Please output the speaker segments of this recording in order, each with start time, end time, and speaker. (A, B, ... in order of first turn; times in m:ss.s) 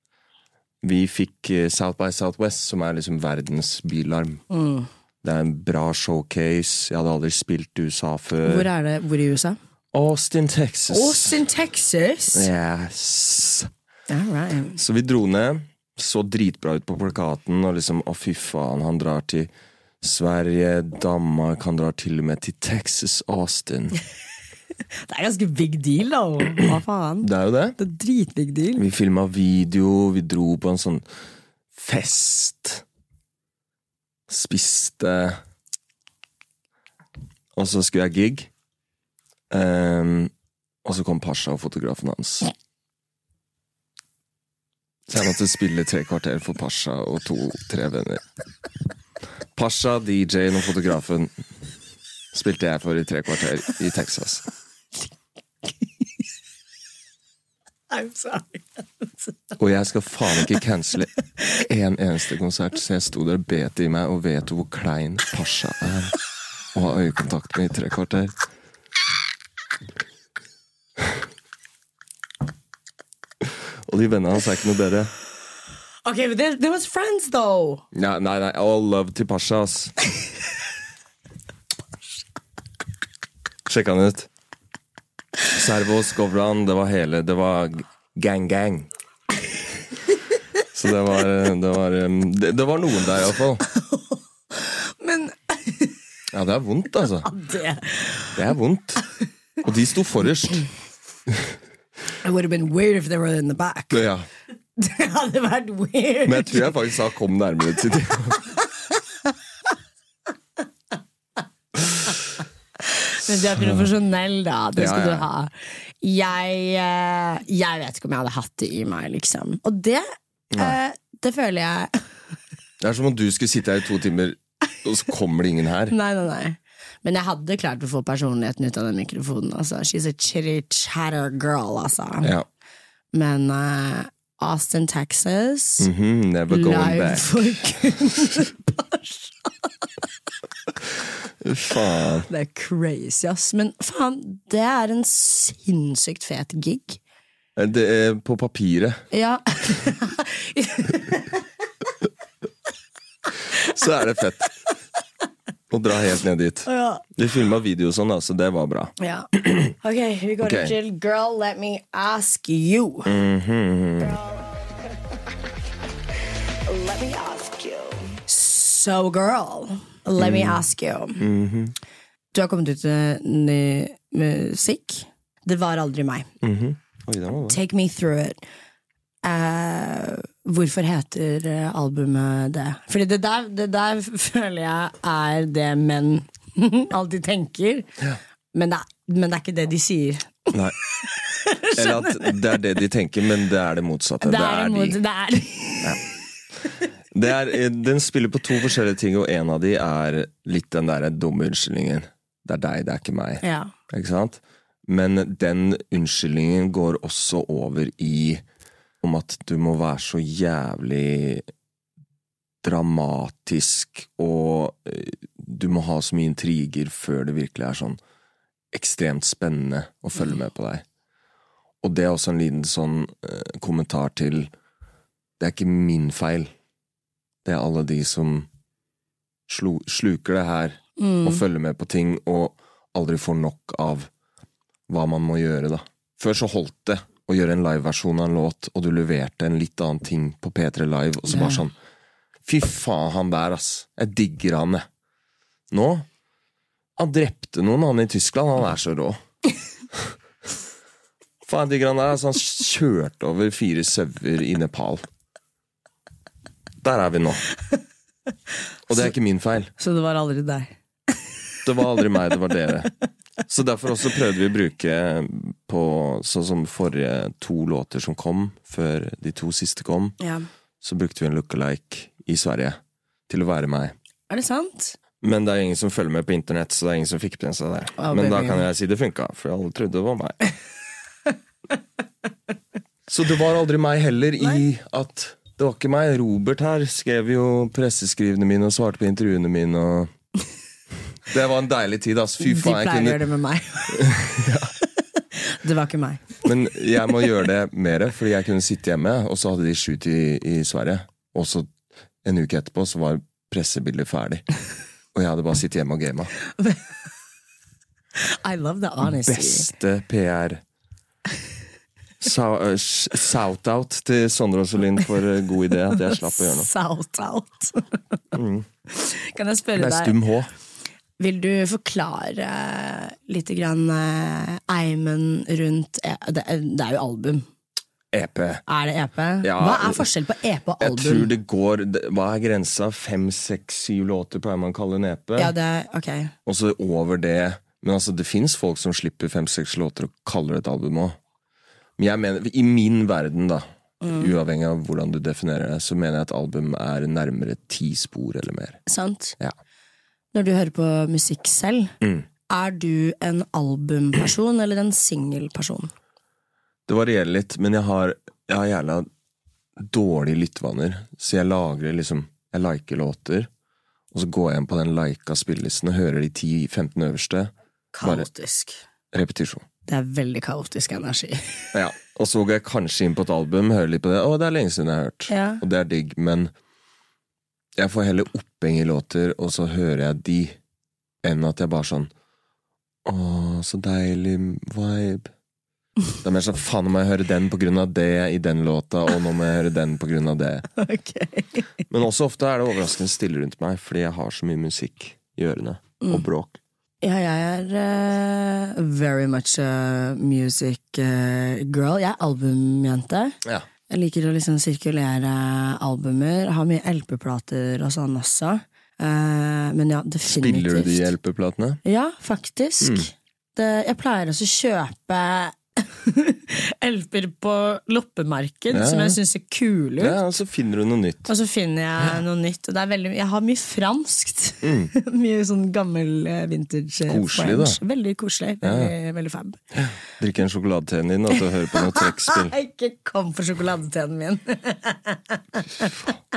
0:00.8-0:04.4 A
0:04.5-0:04.9 B
0:05.2-0:08.7 A
0:08.4-0:09.6 B
0:09.9-0:11.4 A
0:10.9-0:12.5 B
0:12.3-0:13.7 A
0:14.1-0:14.8 B
0:14.7-0:24.0 A
0:25.1-0:28.8 B
0:27.2-0:27.8 A
0:28.8-0:31.0 A
0:31.7-0:32.8 A
0:34.3-0:35.4 A
0:37.5-0:38.5 A
0:39.5-0:40.3 A
0:40.8-0:42.5 A
0:45.1-0:48.2 A
0:49.5-0:51.4 A
0:52.3-0:54.4 A
0:57.9-0:59.6 B
0:59.6-1:06.1 A
1:06.7-1:08.3 A
1:13.9-1:15.1 A
1:16.0-1:17.8 B
1:17.9-1:19.9 A
1:23.6-1:24.3 A
1:25.5-1:28.9 A
1:30.7-1:33.6 A
1:33.7-1:35.9 B
1:36.3-1:37.3 A
1:37.2-1:38.4 B
1:38.3-1:39.0 A
1:39.6-1:40.6 A
1:42.2-1:44.0 B
1:43.9-1:44.3 A
1:44.8-1:46.7 B
1:46.2-1:48.4 A
1:52.8-1:55.5 B
1:53.6-1:53.8 A
1:54.8-1:55.3 A
1:56.0-2:02.0 B
2:00.5-2:00.8 A
2:02.8-2:05.9 A
2:05.9-2:12.3 B
2:13.1-2:15.9 B
2:15.8-2:17.6 A
2:16.5-2:19.9 B
2:21.4-2:22.3 A
2:22.3-2:27.0 B
2:27.6-2:29.0 A
2:29.1-2:31.4 B
2:33.5-2:34.5 A
2:35.7-2:39.7 A
2:36.6-2:37.0 B
2:39.0-2:39.3 B
2:39.8-2:43.1 B
2:40.4-2:40.7 A
2:43.0-2:44.2 A
2:46.7-2:51.3 B
2:50.2-2:50.6 A
2:51.2-2:51.8 A
2:52.3-2:56.3 B
2:56.4-2:57.6 A
2:57.5-2:58.4 B
2:59.2-3:07.9 B
3:08.5-3:10.5 B
3:11.2-3:12.3 B
3:11.7-3:15.0 A
3:14.2-3:16.0 B
3:17.1-3:28.4 A
3:23.4-3:23.7 B
3:29.0-3:31.4 A
3:32.6-3:38.0 A
3:38.7-3:40.8 A
3:41.8-3:44.5 A
3:45.4-3:46.5 A
3:47.4-3:48.5 A
3:49.5-3:54.1 A
3:51.0-3:51.4 B
3:54.9-4:01.7 A
4:01.3-4:01.6 B
4:02.4-4:04.8 A
4:05.7-4:06.0 A
4:07.0-4:09.2 A
4:11.4-4:15.0 A
4:16.8-4:17.4 A
4:18.9-4:19.7 A
4:19.8-4:20.7 B
4:21.6-4:22.9 A
4:23.5-4:30.2 A
4:30.2-4:30.4 B
4:30.8-4:33.9 A
4:34.3-4:35.0 B
4:35.2-4:40.4 A
4:38.0-4:38.6 B
4:43.1-4:50.1 A
4:51.3-4:53.2 A
4:52.4-4:54.1 B
4:53.9-4:54.7 A
4:55.3-4:56.4 B
4:56.4-5:01.7 A
5:02.2-5:04.4 A
5:05.1-5:06.3 A
5:08.2-5:09.7 B
5:09.0-5:10.6 A
5:12.2-5:16.7 A
5:16.0-5:18.1 B
5:18.3-5:18.6 A
5:18.9-5:20.2 B
5:19.8-5:20.5 A
5:21.2-5:27.4 B
5:28.1-5:28.6 A
5:28.7-5:31.3 B
5:29.4-5:30.0 A
5:30.8-5:35.5 A
5:35.4-5:36.3 B
5:36.4-5:41.2 A
5:42.0-5:48.8 A
5:44.0-5:44.3 B
5:48.9-5:49.4 B
5:50.3-5:51.9 B
5:52.5-5:55.9 B
5:56.9-5:59.1 A
5:59.8-6:03.5 A
6:04.1-6:08.3 A
6:07.9-6:08.8 B
6:09.1-6:09.6 A
6:09.9-6:11.6 B
6:11.7-6:16.5 A
6:15.3-6:15.6 B
6:17.8-6:20.6 A
6:21.2-6:22.1 A
6:23.0-6:25.3 A
6:26.2-6:30.7 A
6:30.8-6:31.7 B
6:31.9-6:36.6 A
6:36.0-6:36.2 B
6:37.0-6:43.4 B
6:43.9-6:51.1 B
6:50.3-6:51.8 A
6:51.8-7:00.2 B
6:52.8-6:53.1 A
6:58.7-6:59.2 A
7:00.0-7:01.3 A
7:01.2-7:09.6 B
7:04.6-7:04.9 A
7:07.1-7:07.8 A
7:08.6-7:08.9 A
7:09.7-7:12.5 A
7:11.7-7:15.9 B